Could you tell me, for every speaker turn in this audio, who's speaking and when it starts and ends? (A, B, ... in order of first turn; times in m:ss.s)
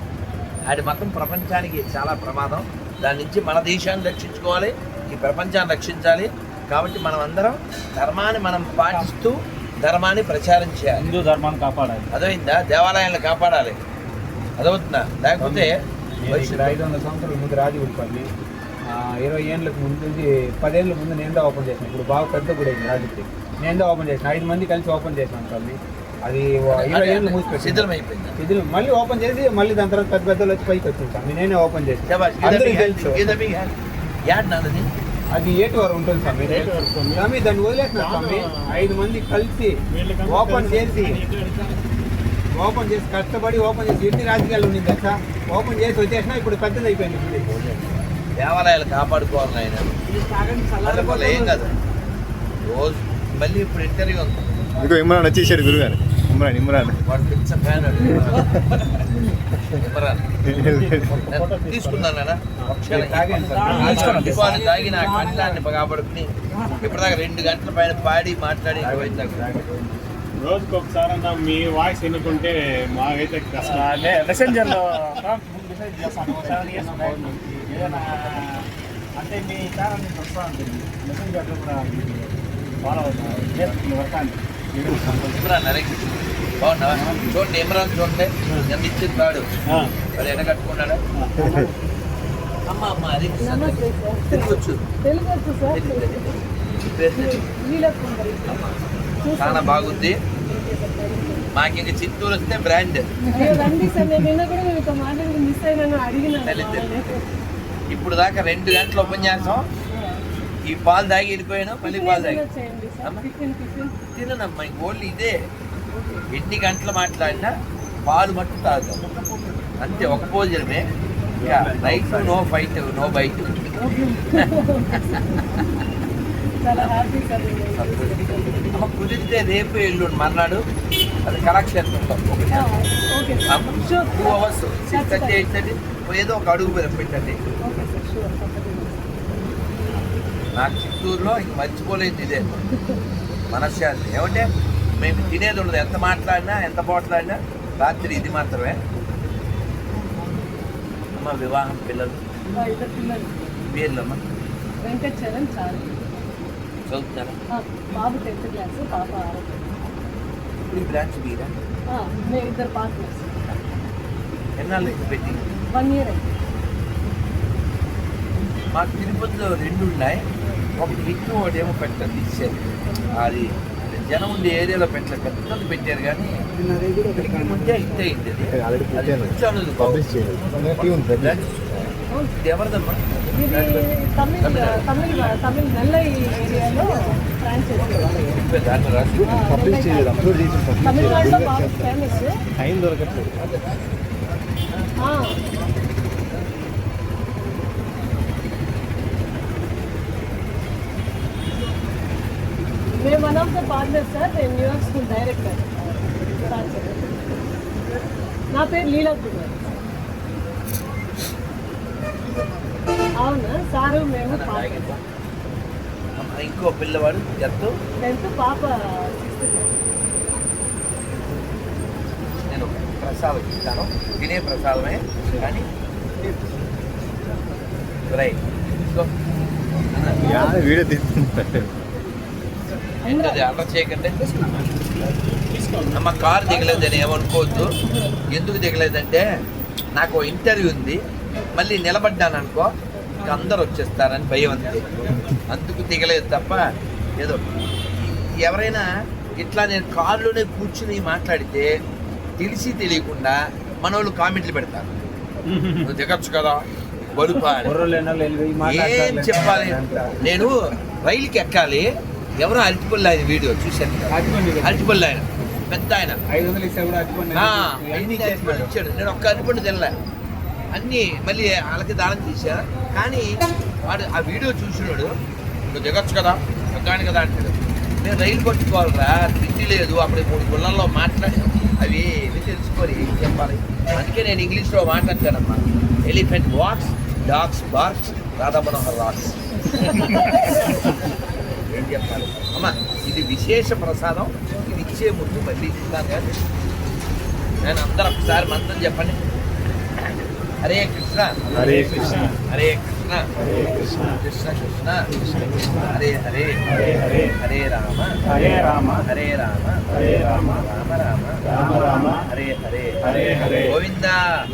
0:00.7-0:11.0 A
0:08.8-0:09.1 B
0:10.9-0:12.1 B
0:12.1-0:13.8 A
0:14.6-0:15.7 A
0:15.4-0:18.3 C
0:16.3-0:16.8 A
0:18.9-0:33.4 C
0:26.7-0:28.4 A
0:32.0-0:33.7 A
0:34.2-0:34.9 A
0:35.3-0:41.2 C
0:36.4-0:37.3 D
0:37.9-0:38.8 D
0:39.9-0:41.2 D
0:41.1-0:41.8 B
0:42.6-0:47.4 C
0:47.4-0:50.0 A
0:50.0-0:51.8 B
0:50.8-0:51.7 A
0:52.6-0:54.4 A
0:54.8-0:57.0 E
0:57.0-0:58.6 A
0:59.8-1:00.2 A
1:00.4-1:02.7 D
1:00.5-1:01.2 E
1:01.3-1:09.6 A
1:02.9-1:04.6 C
1:03.4-1:05.7 B
1:03.6-1:04.3 D
1:06.5-1:07.0 B
1:08.8-1:10.0 C
1:10.4-1:13.9 D
1:13.6-1:18.7 B
1:16.1-1:18.4 D
1:16.5-1:17.5 C
1:19.2-1:22.3 B
1:22.8-1:23.8 D
1:23.1-1:25.1 B
1:24.8-1:25.3 D
1:25.3-1:29.5 A
1:29.7-1:30.0 D
1:30.1-1:31.0 A
1:31.2-1:31.7 D
1:31.4-1:31.6 E
1:32.7-1:34.8 A
1:33.4-1:36.3 F
1:35.7-1:37.5 A
1:37.1-1:38.7 F
1:38.5-1:38.8 A
1:39.2-1:41.5 F
1:39.4-1:40.2 A
1:41.5-1:43.0 A
1:43.3-1:47.2 F
1:46.4-1:47.0 A
1:47.9-1:49.7 A
1:49.9-1:50.2 F
1:50.7-1:52.4 A
1:51.8-1:54.1 F
1:54.1-1:55.3 A
1:55.9-1:56.2 F
1:56.3-1:57.5 A
1:58.0-1:59.1 A
1:59.8-2:00.9 A
2:01.4-2:02.4 C
2:01.4-2:03.5 A
2:03.8-2:05.2 F
2:04.4-2:05.6 A
2:06.6-2:08.8 F
2:07.7-2:10.6 A
2:11.2-2:12.7 A
2:12.5-2:15.5 F
2:13.5-2:17.4 A
2:17.6-2:19.3 F
2:20.6-2:22.6 A
2:22.5-2:23.0 F
2:23.5-2:28.8 A
2:31.2-2:32.2 A
2:32.5-2:33.3 F
2:33.7-2:34.2 A
2:34.8-2:35.9 F
2:36.9-2:37.4 A
2:37.5-2:39.7 F
2:40.7-2:41.5 A
2:41.9-2:43.6 F
2:44.6-2:45.5 A
2:45.7-2:46.3 F
2:48.7-2:50.2 A
2:50.8-2:56.4 A
2:56.6-2:57.8 E
2:57.1-3:01.8 A
2:58.5-3:01.9 E
3:02.4-3:03.8 A
3:03.3-3:08.1 F
3:04.4-3:05.3 A
3:07.7-3:09.5 A
3:09.2-3:12.4 F
3:09.3-3:13.4 E
3:13.1-3:13.9 A
3:15.0-3:15.4 F
3:23.0-3:27.2 F
3:28.5-3:29.6 F
3:33.2-3:34.9 F
3:34.3-3:35.0 A
3:36.2-3:37.7 A
3:38.0-3:39.7 F
3:42.5-3:45.7 A
3:48.1-3:48.4 A
3:49.9-3:50.2 A
3:50.2-3:51.8 E
3:53.0-3:53.5 F
3:53.0-3:54.2 A
3:55.3-3:57.1 D
3:55.9-3:57.7 A
3:58.3-3:59.2 A
3:59.9-4:01.0 A
4:01.5-4:02.7 A
4:03.2-4:04.9 A
4:05.0-4:05.3 E
4:05.5-4:06.6 A
4:07.2-4:07.4 A
4:08.0-4:11.7 A
4:12.4-4:14.9 A
4:15.5-4:15.9 C
4:15.8-4:17.7 A
4:17.6-4:20.5 C
4:18.6-4:21.9 A
4:22.4-4:26.2 A
4:24.1-4:24.9 C
4:26.3-4:28.7 C
4:27.3-4:29.9 A
4:30.8-4:35.1 A
4:35.7-4:50.8 A
4:51.7-4:56.4 A
4:57.6-4:59.2 A
5:00.0-5:01.6 A
5:01.5-5:02.0 E
5:01.6-5:02.2 B
5:02.0-5:02.3 D
5:02.5-5:05.0 A
5:03.5-5:04.1 E
5:05.8-5:08.1 A
5:09.0-5:14.2 A